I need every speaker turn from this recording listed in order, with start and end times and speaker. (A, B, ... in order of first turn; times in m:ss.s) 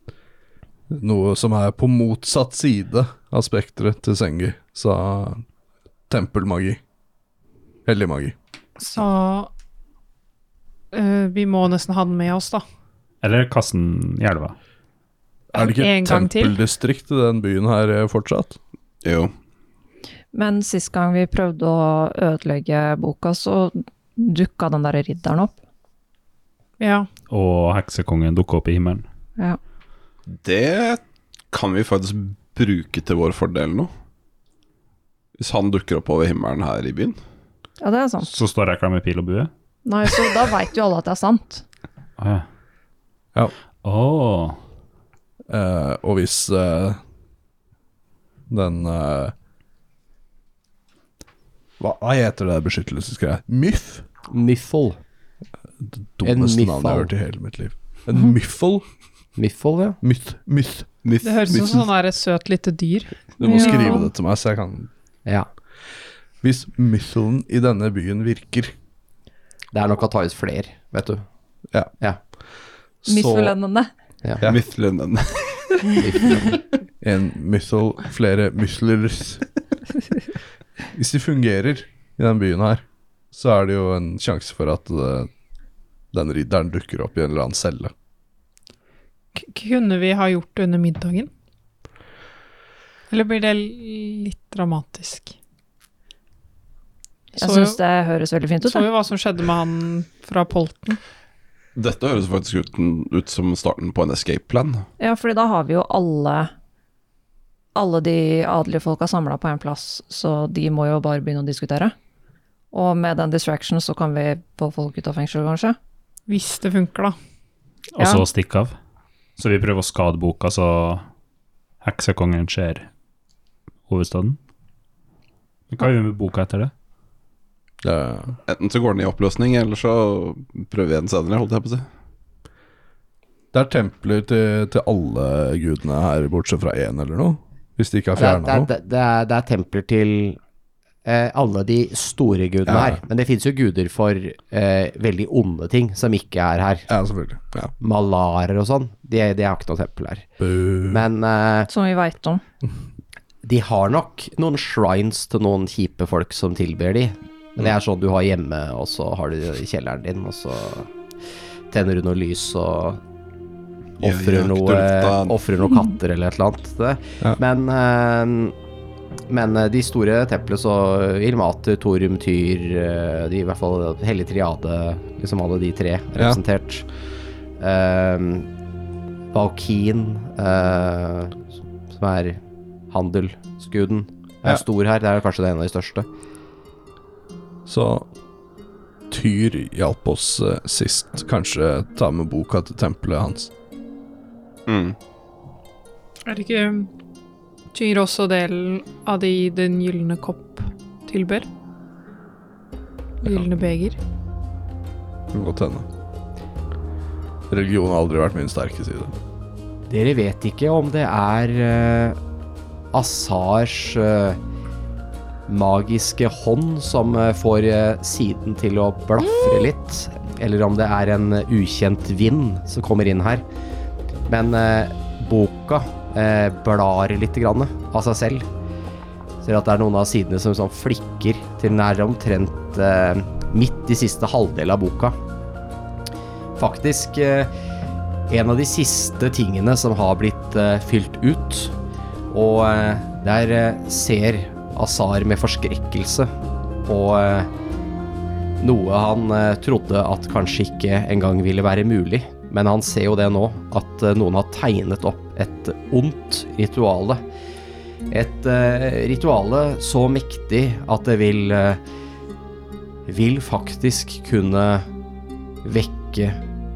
0:00.9-0:05.4 A
0:06.1-0:06.8 A
0:07.8-0:08.3 A
0:08.8-0:09.5 B
0:10.9-0:12.6 B
0:13.2-0:14.6 C
0:15.5-0:18.6 A
0:15.6-0:16.6 B
0:19.0-0:19.3 D
0:20.3-0:25.5 E
0:26.8-0:27.1 B
0:27.3-0:29.0 C
0:30.3-0:31.0 D
0:31.5-0:33.9 D
0:35.4-0:37.2 D
0:37.8-0:38.3 E
0:38.2-0:39.5 C
0:39.8-0:41.6 E
0:42.2-0:42.4 C
0:43.8-0:44.6 C
0:45.5-0:47.0 A
0:48.5-0:49.3 A
0:51.8-0:54.1 A
0:54.3-0:55.0 F
0:55.8-0:58.8 A
0:56.2-0:57.1 F
0:59.4-1:00.0 F
1:00.0-1:00.9 A
1:01.0-1:01.8 D
1:01.2-1:04.1 B
1:03.4-1:04.9 A
1:03.5-1:04.0 E
1:06.4-1:08.7 A
1:09.7-1:11.2 F
1:13.0-1:13.5 A
1:13.0-1:13.9 E
1:14.4-1:16.6 D
1:17.0-1:19.4 A
1:20.9-1:25.3 A
1:26.1-1:27.9 A
1:29.4-1:31.3 B
1:33.1-1:35.3 B
1:37.4-1:38.9 E
1:37.4-1:37.8 B
1:38.6-1:41.0 B
1:41.7-1:44.8 D
1:45.0-1:46.5 E
1:47.8-1:51.9 E
1:52.7-1:55.8 E
1:56.3-1:57.1 B
1:58.0-1:58.7 C
1:58.0-1:58.2 E
1:59.4-2:01.0 C
2:01.8-2:02.9 C
2:03.9-2:04.4 C
2:05.7-2:06.7 C
2:07.8-2:08.4 A
2:08.5-2:11.8 D
2:13.5-2:18.7 A
2:18.1-2:20.4 F
2:21.0-2:26.9 F
2:22.7-2:23.0 A
2:26.9-2:27.7 A
2:27.8-2:30.3 F
2:30.4-2:31.0 A
2:30.9-2:31.7 F
2:31.7-2:32.4 E
2:33.4-2:40.9 F
2:41.7-2:43.0 F
2:44.0-2:48.6 F
2:44.0-2:45.3 D
2:49.3-2:56.8 F
2:57.6-2:58.5 F
2:59.3-3:06.1 F
3:07.6-3:08.1 A
3:09.1-3:13.5 A
3:14.7-3:15.0 D
3:16.2-3:16.9 B
3:17.7-3:21.5 B
3:23.2-3:24.0 B
3:25.3-3:25.8 A
3:27.5-3:29.1 A
3:29.9-3:32.2 F
3:32.9-3:34.4 F
3:35.5-3:43.4 F
3:44.3-3:48.5 F
3:49.4-3:55.2 F
3:56.6-3:57.5 F
3:58.3-4:01.7 F
4:02.3-4:06.3 F
4:06.8-4:07.5 F
4:08.6-4:17.2 F
4:18.1-4:21.8 F
4:23.0-4:24.9 F
4:25.6-4:26.4 F